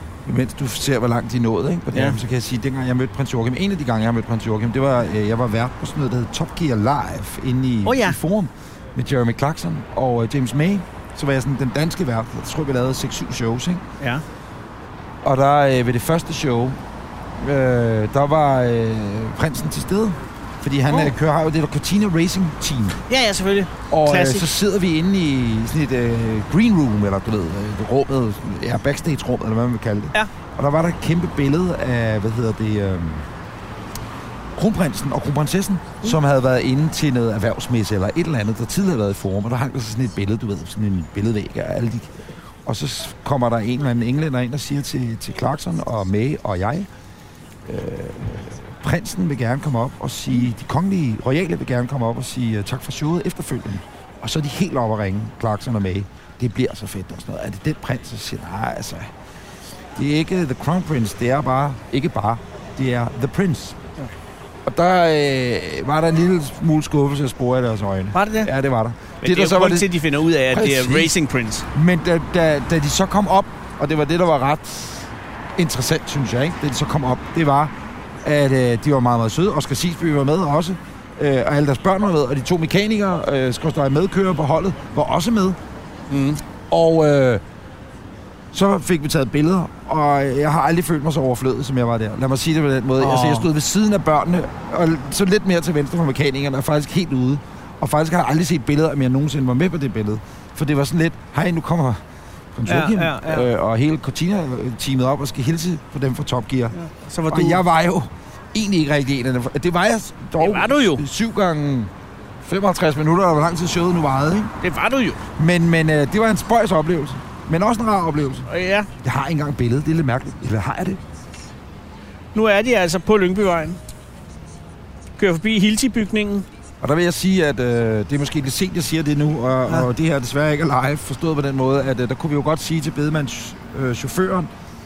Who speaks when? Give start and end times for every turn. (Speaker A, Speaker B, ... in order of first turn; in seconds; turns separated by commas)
Speaker A: 0.2-13.8, Speaker B: 1.9-2.2, Speaker B: 7.8-8.2, Speaker A: 15.2-16.8, Speaker A: 17.4-23.0, Speaker B: 20.9-21.1, Speaker B: 23.1-24.5, Speaker A: 23.9-33.3, Speaker A: 34.5-42.1, Speaker A: 42.6-46.9, Speaker A: 47.6-59.1, Speaker A: 60.0-63.8, Speaker A: 64.7-69.9, Speaker B: 68.1-68.5, Speaker B: 69.2-71.7, Speaker A: 70.5-71.2, Speaker A: 71.7-77.7, Speaker A: 78.2-85.6, Speaker B: 86.1-86.4, Speaker A: 86.7-87.4, Speaker A: 88.5-102.0, Speaker B: 93.0-93.5, Speaker A: 102.5-106.7, Speaker B: 102.7-103.5, Speaker B: 106.7-107.6, Speaker A: 107.3-111.9, Speaker B: 110.4-111.0, Speaker A: 112.4-114.5, Speaker B: 114.6-115.2, Speaker A: 115.4-118.5, Speaker B: 118.5-118.9, Speaker A: 119.0-121.0, Speaker B: 122.3-123.8, Speaker B: 125.2-126.5, Speaker A: 126.8-134.5